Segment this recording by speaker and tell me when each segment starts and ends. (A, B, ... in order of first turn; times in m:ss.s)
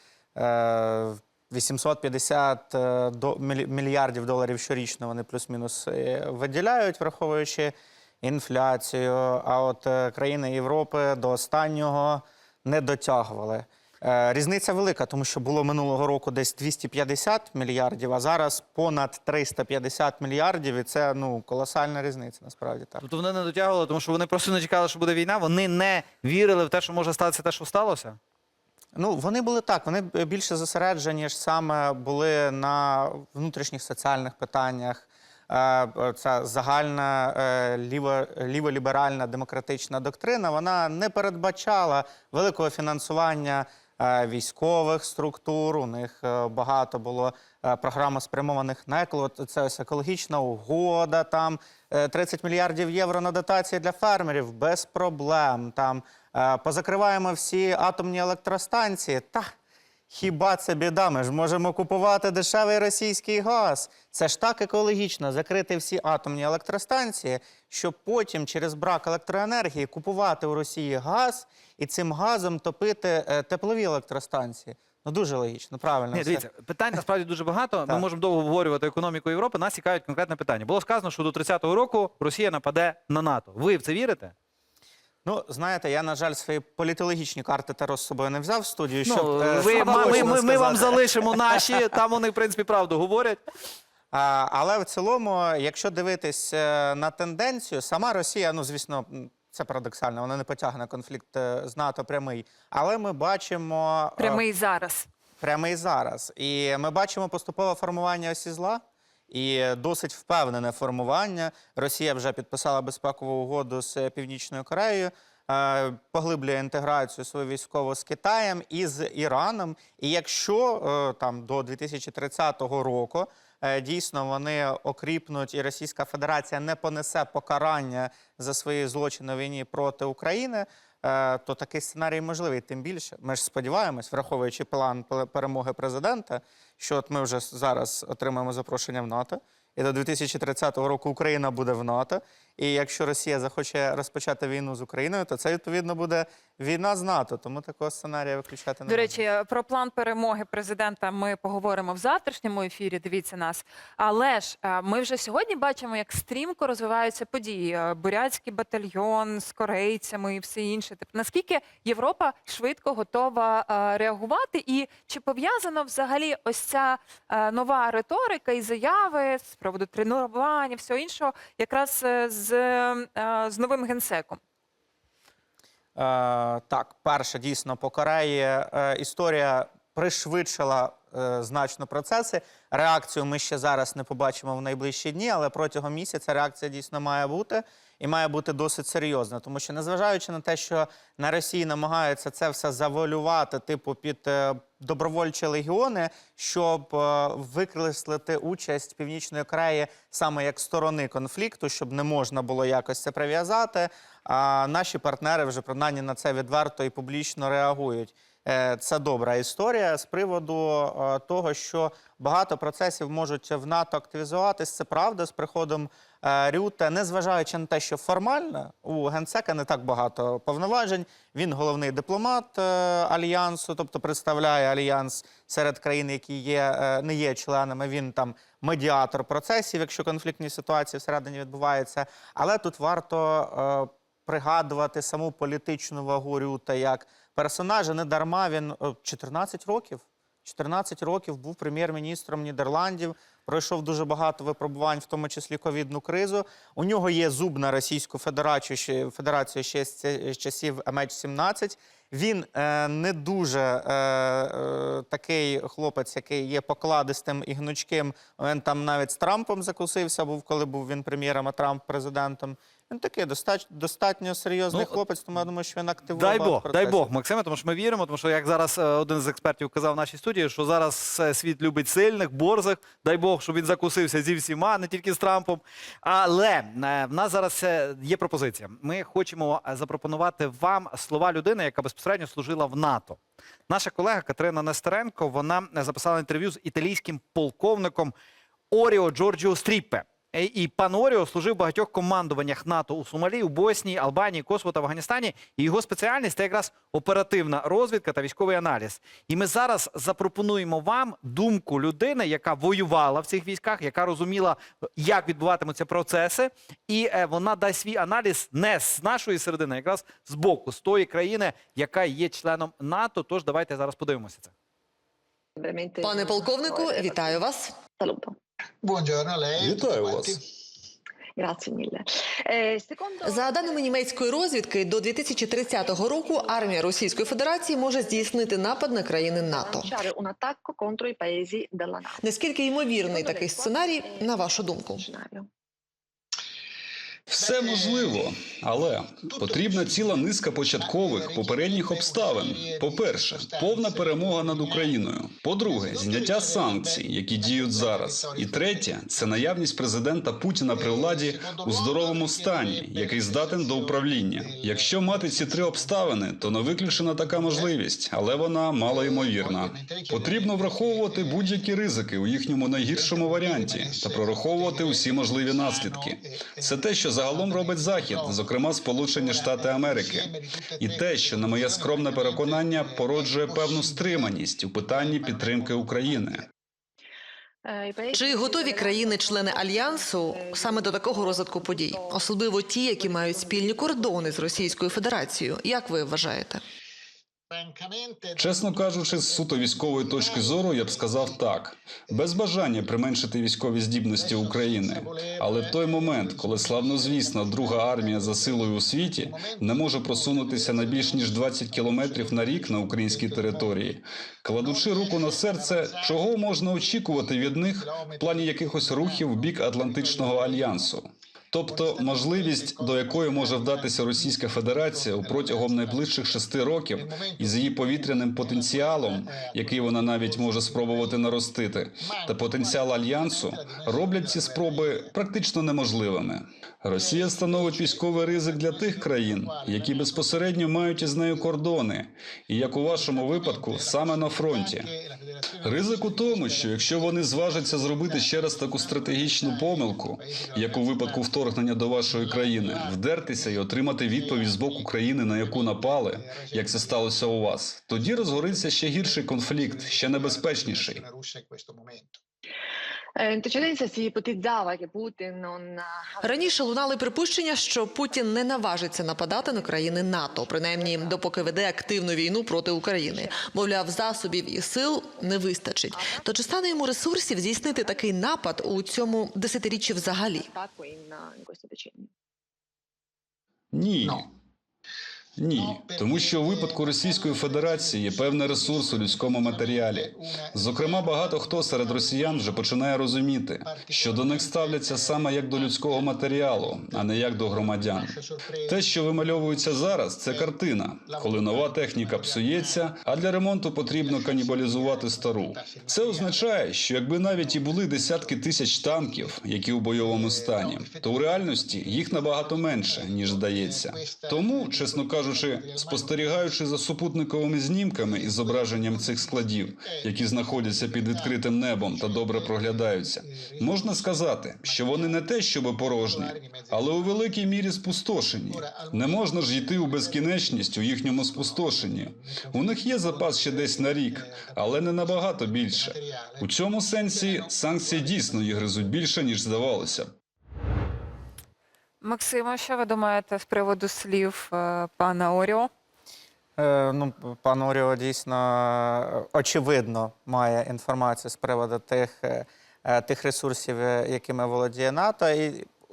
0:00.4-0:23.0 A
0:23.0-0:28.2 B
0:29.0-0:59.5 A
1:00.1-1:16.4 A
1:16.1-1:24.3 B
1:25.2-1:31.4 A
1:29.1-1:33.4 B
1:34.1-1:44.4 A
1:44.2-1:45.1 C
1:45.4-2:29.2 A
2:28.9-2:54.4 C
2:56.0-4:27.1 A
4:24.7-4:25.0 B
4:26.1-4:48.1 B
4:48.7-5:14.5 B
5:15.6-5:18.4 D
5:16.0-5:17.8 E
5:18.8-5:20.4 F
5:19.6-5:20.4 G
5:21.4-5:23.9 D
5:23.3-5:30.0 E
5:25.6-5:32.3 D
5:32.2-5:35.1 E
5:33.0-5:35.5 D
5:37.3-6:16.4 G
5:37.4-5:38.2 F
5:39.1-5:45.0 F
5:45.6-5:49.2 F
5:50.7-5:57.8 F
5:58.8-6:01.7 F
6:02.8-6:16.5 F
6:17.6-6:25.1 D
6:18.1-6:26.6 E
6:27.5-6:31.4 F
6:28.4-7:14.9 G
6:34.2-6:44.0 F
6:44.6-6:50.9 F
6:51.7-7:01.4 F
7:02.0-7:05.2 F
7:06.9-7:11.5 F
7:12.9-7:27.4 F
7:15.6-7:31.0 G
7:27.9-7:32.2 F
7:33.2-7:52.1 D
7:36.2-7:50.5 E
7:53.7-7:54.3 G
7:55.4-8:08.2 G
7:55.5-8:02.8 F
8:03.6-8:13.0 F
8:08.7-8:50.1 G
8:14.0-8:16.5 F
8:17.2-8:19.4 F
8:19.9-8:26.6 F
8:28.0-8:37.4 F
8:38.5-8:48.9 F
8:52.0-8:55.7 C
8:56.6-9:05.7 A